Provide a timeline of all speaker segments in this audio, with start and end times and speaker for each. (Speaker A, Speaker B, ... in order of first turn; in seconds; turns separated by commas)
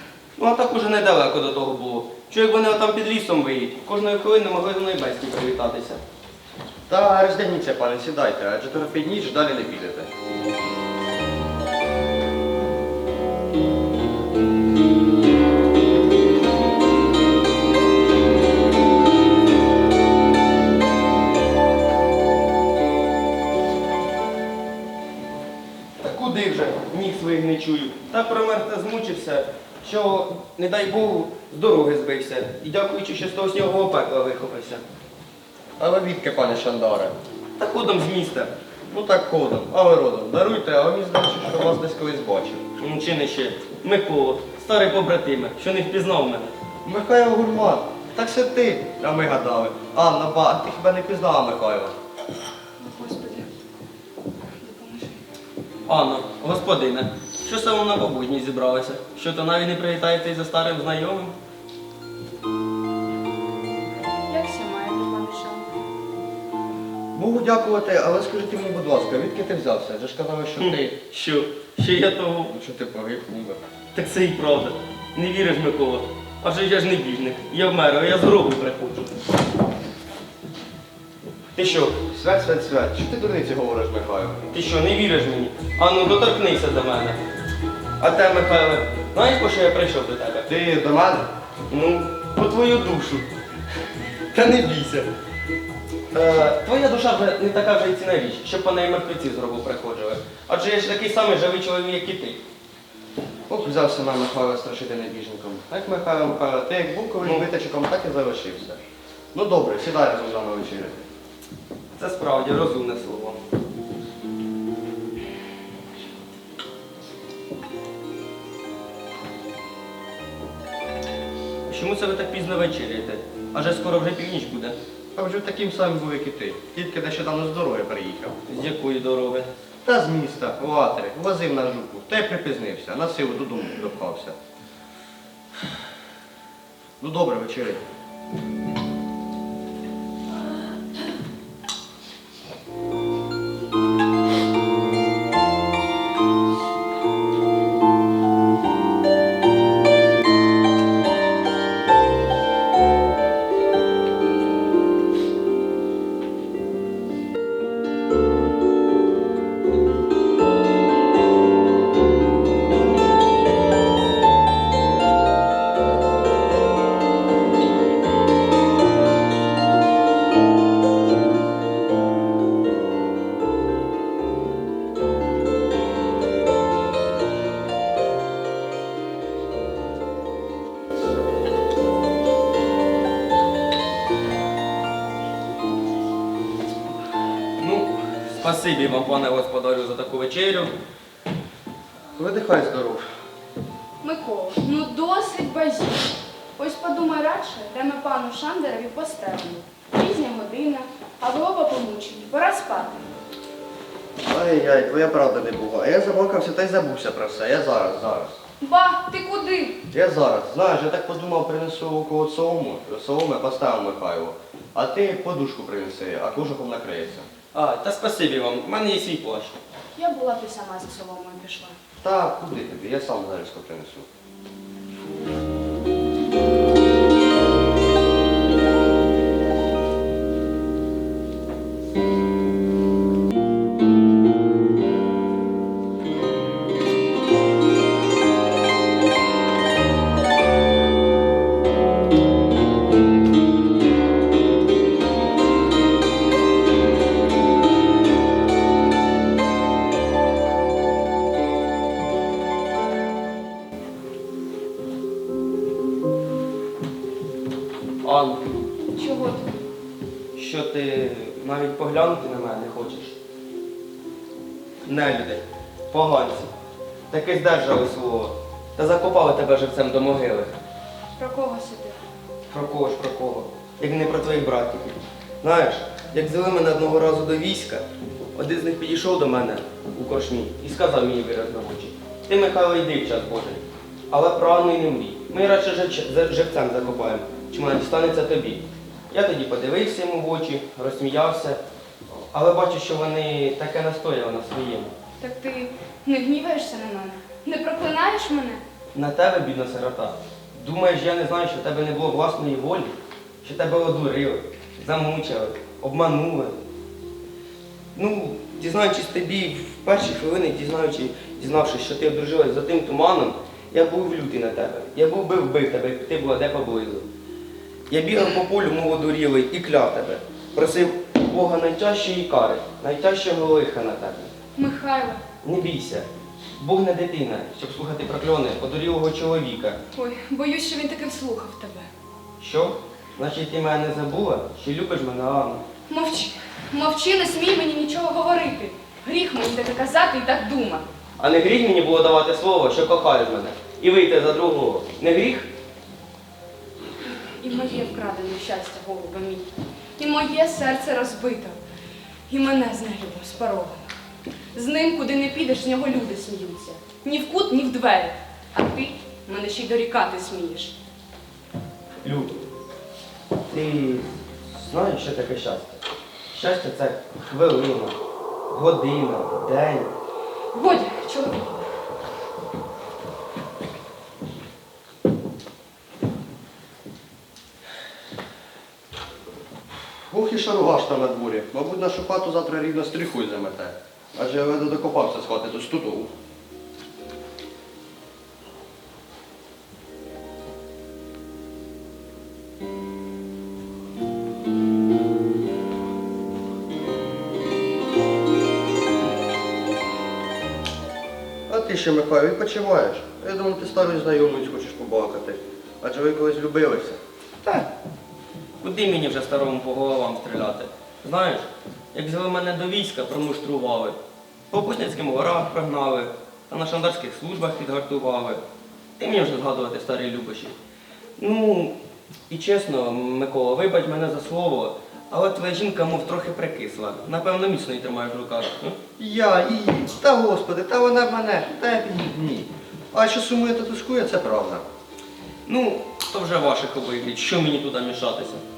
Speaker A: 0.4-6.0, Speaker B: 6.9-10.1, Speaker A: 26.0-34.8, Speaker B: 35.8-37.1, Speaker A: 37.6-38.5, Speaker B: 38.9-42.6, Speaker A: 42.8-46.5, Speaker B: 46.8-51.9, Speaker C: 52.8-53.5, Speaker C: 54.6-55.2, Speaker A: 55.9-61.3, Speaker C: 64.3-65.8, Speaker B: 67.1-71.0, Speaker A: 70.6-72.5, Speaker B: 72.5-73.6, Speaker A: 73.9-79.1, Speaker A: 81.5-82.0, Speaker B: 82.1-84.4, Speaker A: 84.5-87.2, Speaker A: 88.0-90.5, Speaker B: 90.5-91.3, Speaker A: 91.7-93.2, Speaker B: 94.3-95.1, Speaker A: 96.1-102.4, Speaker B: 103.5-108.8, Speaker B: 109.3-111.1, Speaker A: 112.0-113.4, Speaker A: 121.7-124.8, Speaker B: 125.1-128.3, Speaker A: 128.5-129.5, Speaker B: 129.8-134.3, Speaker B: 137.0-137.8, Speaker A: 187.6-190.7, Speaker B: 192.2-193.1, Speaker C: 194.0-203.1, Speaker B: 204.2-208.4, Speaker C: 208.6-209.8, Speaker B: 209.9-217.3, Speaker A: 217.5-219.6, Speaker C: 219.9-221.8, Speaker B: 222.0-224.1, Speaker A: 258.0-258.4, Speaker C: 258.9-259.6, Speaker A: 260.3-263.1, Speaker A: 264.8-266.5, Speaker A: 267.1-270.5, Speaker C: 271.2-272.0, Speaker A: 272.5-277.8, Speaker A: 278.3-291.6, Speaker A: 292.3-294.9, Speaker C: 295.2-298.6, Speaker A: 298.9-306.6, Speaker A: 307.9-317.1, Speaker A: 317.9-324.3, Speaker C: 324.6-325.2, Speaker A: 325.4-326.1, Speaker A: 326.6-329.8, Speaker C: 329.9-331.9, Speaker A: 332.4-335.6, Speaker C: 335.9-340.9, Speaker A: 341.2-345.5, Speaker C: 347.2-351.6, Speaker C: 352.3-353.9, Speaker C: 354.5-360.8, Speaker A: 362.0-362.4, Speaker A: 363.5-365.8, Speaker A: 366.3-367.9, Speaker A: 368.5-369.9, Speaker C: 370.5-371.7, Speaker B: 379.9-386.1, Speaker B: 401.5-407.6, Speaker A: 408.6-413.9, Speaker A: 414.5-418.4, Speaker A: 419.0-420.5, Speaker A: 421.2-421.7, Speaker A: 422.3-428.8, Speaker B: 429.0-434.6, Speaker A: 435.4-438.4